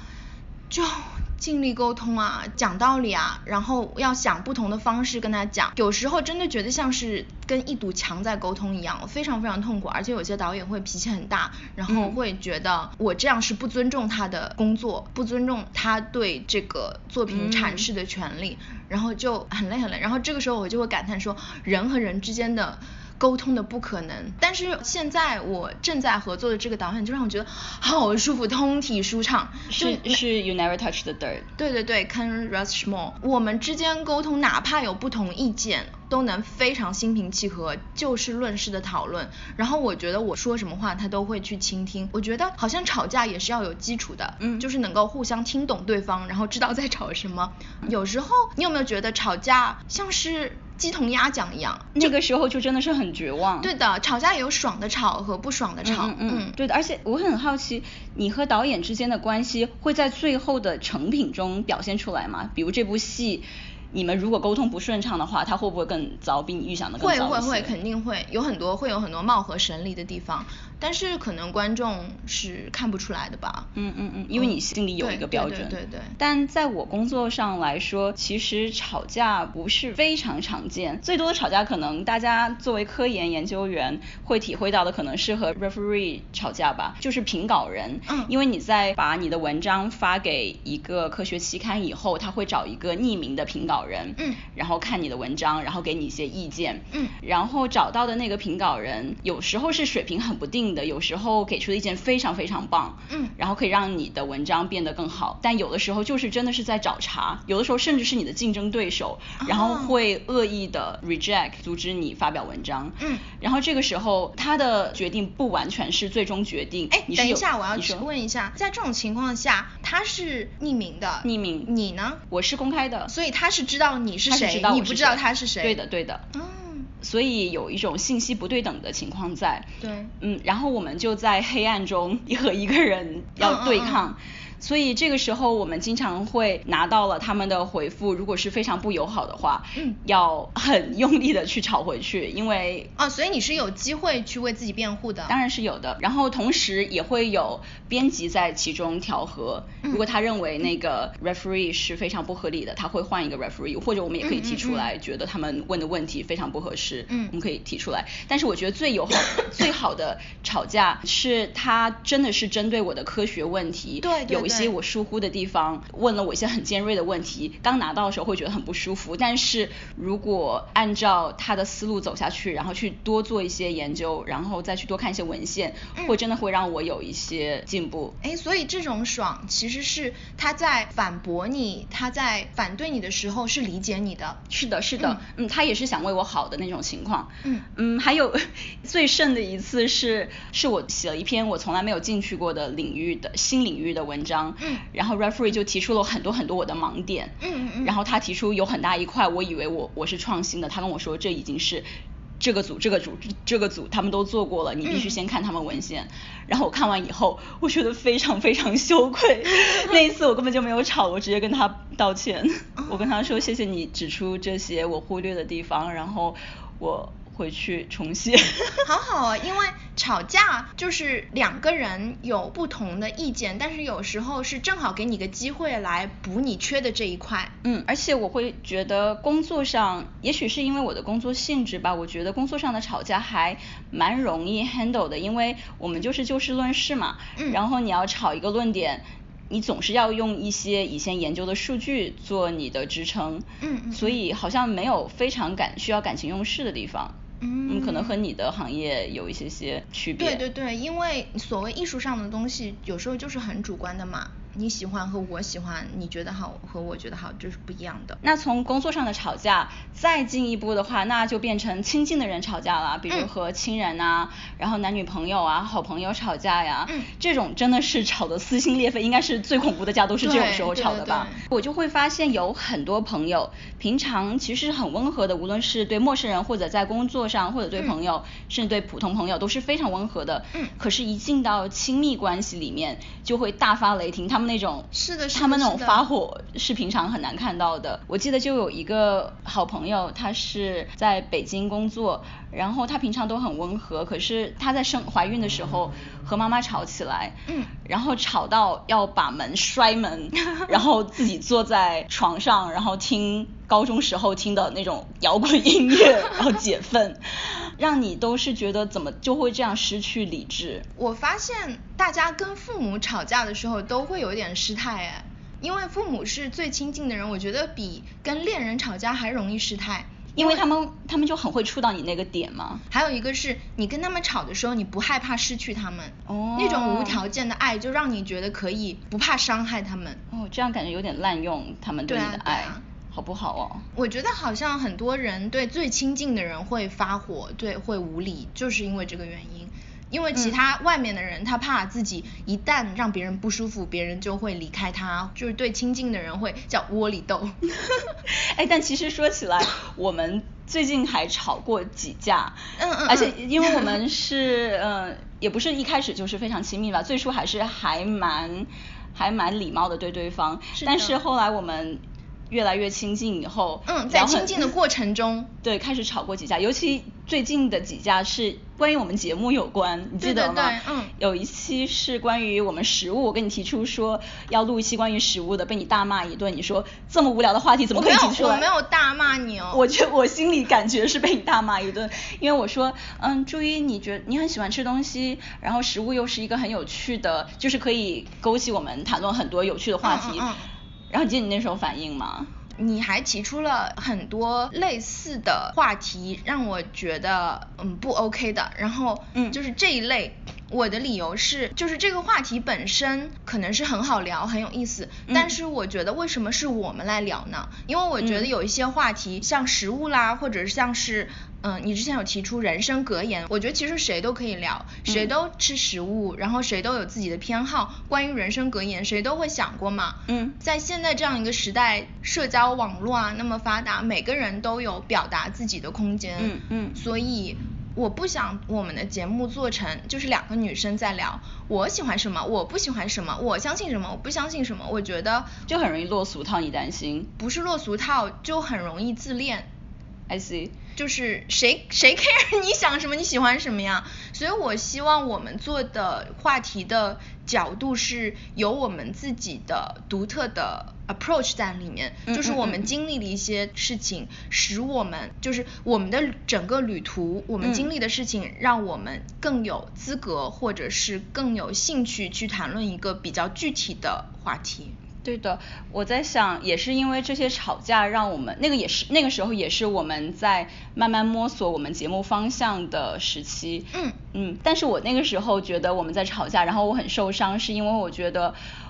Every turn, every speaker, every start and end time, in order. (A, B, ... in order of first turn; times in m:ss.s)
0:00.7-0:30.2 A
0:11.9-0:12.2 B
0:17.3-0:17.9 B
0:29.7-0:31.5 B
0:31.6-0:52.1 A
0:44.4-0:44.6 B
0:52.0-0:53.7 B
0:53.6-0:56.6 A
0:55.8-1:07.7 B
1:07.0-1:13.7 A
1:13.8-1:58.0 B
1:14.4-1:16.2 A
1:49.4-1:50.0 A
1:56.9-2:02.2 A
2:01.2-2:01.7 B
2:02.3-2:03.1 B
2:03.1-2:05.8 A
2:04.3-2:06.2 B
2:06.3-2:06.9 A
2:07.0-2:22.9 B
2:09.8-2:10.1 A
2:13.4-2:14.1 A
2:23.0-2:25.4 A
2:25.3-2:58.2 B
2:34.2-2:34.9 A
2:44.0-2:44.7 A
2:58.2-3:04.4 A
3:04.5-3:21.9 B
3:17.4-3:17.9 A
3:22.4-3:38.9 B
3:24.8-3:25.2 A
3:32.8-3:33.1 A
3:38.8-3:47.5 A
3:47.6-4:07.2 B
4:03.6-4:04.2 A
4:07.4-4:08.2 A
4:07.7-4:10.4 B
4:10.2-4:18.2 A
4:18.2-5:10.9 B
4:30.2-4:31.4 A
4:44.9-4:46.0 A
5:11.0-5:20.6 A
5:20.4-5:22.8 B
5:22.9-5:30.2 A
5:26.3-5:27.2 B
5:30.3-5:33.8 B
5:32.1-5:32.8 A
5:34.0-5:47.6 A
5:48.3-6:04.7 B
5:52.8-5:54.0 A
6:00.8-6:01.2 A
6:03.9-6:05.5 A
6:05.6-6:18.7 B
6:10.2-6:11.1 A
6:17.9-6:19.8 A
6:19.7-6:30.5 B
6:30.0-6:30.7 A
6:31.1-6:32.5 B
6:32.8-7:15.5 A
6:45.3-6:45.5 B
6:48.2-6:48.5 B
7:00.3-7:00.6 B
7:06.4-7:07.0 B
7:15.7-7:17.3 B
7:17.4-7:19.7 A
7:20.3-7:20.8 B
7:21.0-7:45.0 A
7:32.3-7:32.9 B
7:37.6-7:37.9 B
7:45.2-7:58.6 B